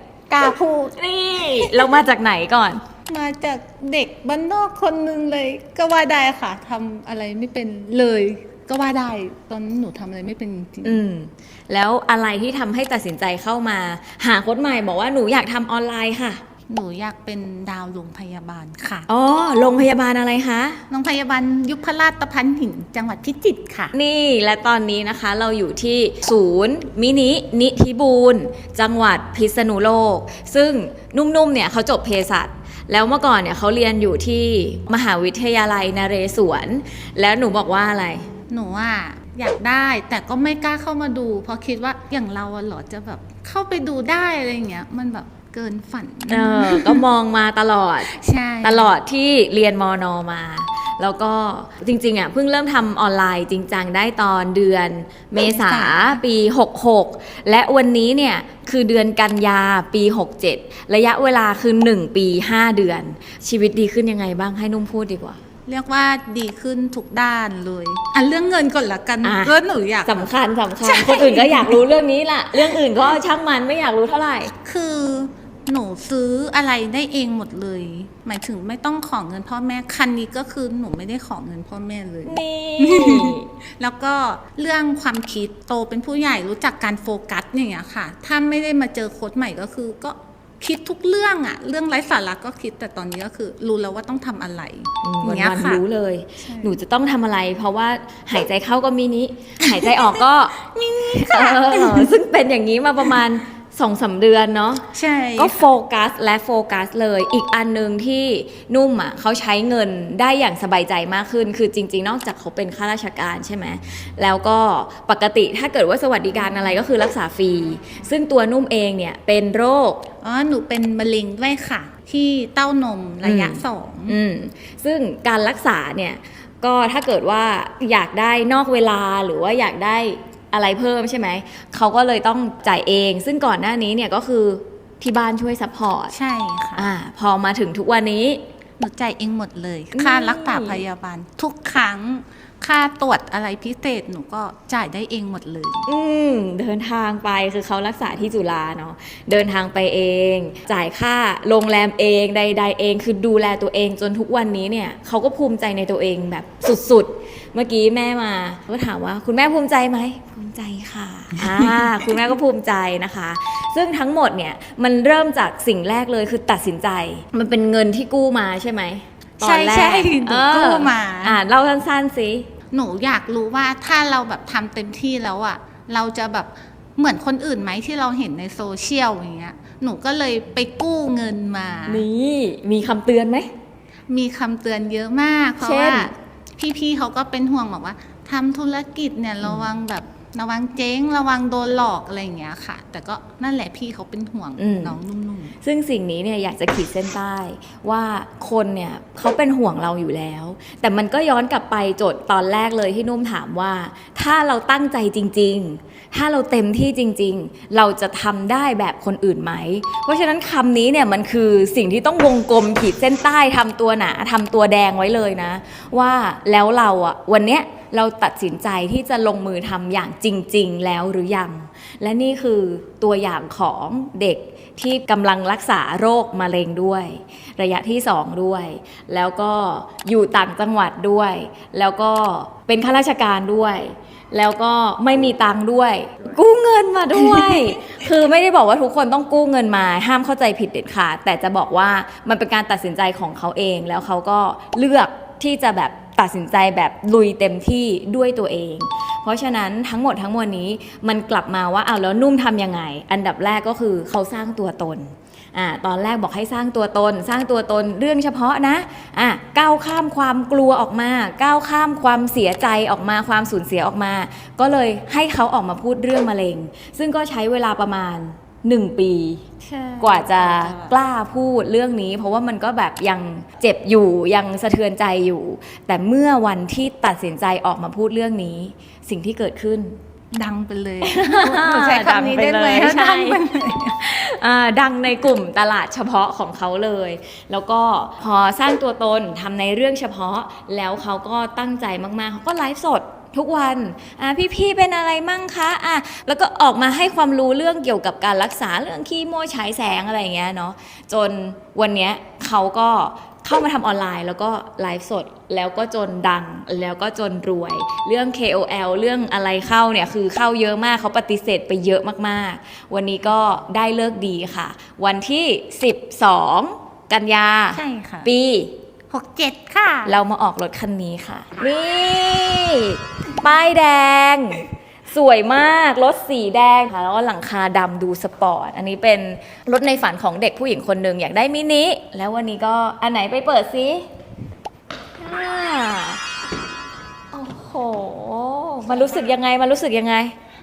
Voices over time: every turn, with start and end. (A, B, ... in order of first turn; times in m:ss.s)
0:00.3-0:01.0 A
0:01.0-0:02.8 B
0:01.5-0:02.0 A
0:03.1-0:11.0 A
0:10.8-0:16.4 B
0:16.7-0:19.1 A
0:19.1-0:20.8 B
0:20.9-0:23.9 A
0:23.9-0:38.3 B
0:38.5-0:47.0 A
0:46.3-0:48.1 B
0:48.1-0:48.9 A
0:48.6-1:05.4 B
0:55.4-0:56.2 A
1:05.7-1:11.8 A
1:09.2-1:09.5 B
1:10.0-1:14.5 B
1:14.6-1:35.8 A
1:22.2-1:23.5 B
1:35.0-1:44.9 B
1:36.4-1:36.8 A
1:39.6-1:42.2 A
1:44.9-1:45.6 A
1:45.4-2:00.0 B
2:00.2-2:04.2 A
2:03.2-2:16.2 B
2:16.1-2:16.9 A
2:16.8-2:18.4 B
2:18.8-2:25.9 A
2:19.9-2:20.8 B
2:25.9-2:52.5 B
2:41.5-2:41.9 A
2:49.4-2:51.4 A
2:52.7-3:02.1 A
3:01.9-3:03.5 B
3:04.1-3:15.6 A
3:05.6-3:06.1 B
3:09.4-3:09.7 B
3:14.6-3:15.0 B
3:15.6-4:29.5 B
4:29.6-4:30.9 A
4:30.0-4:40.0 B
4:40.3-4:44.0 A
4:41.0-4:43.4 B
4:44.0-5:18.7 B
5:17.7-5:18.3 A
5:19.1-5:20.1 A
5:20.1-5:34.0 B
5:35.2-5:36.2 B
5:37.3-5:40.3 B
5:38.9-5:39.3 A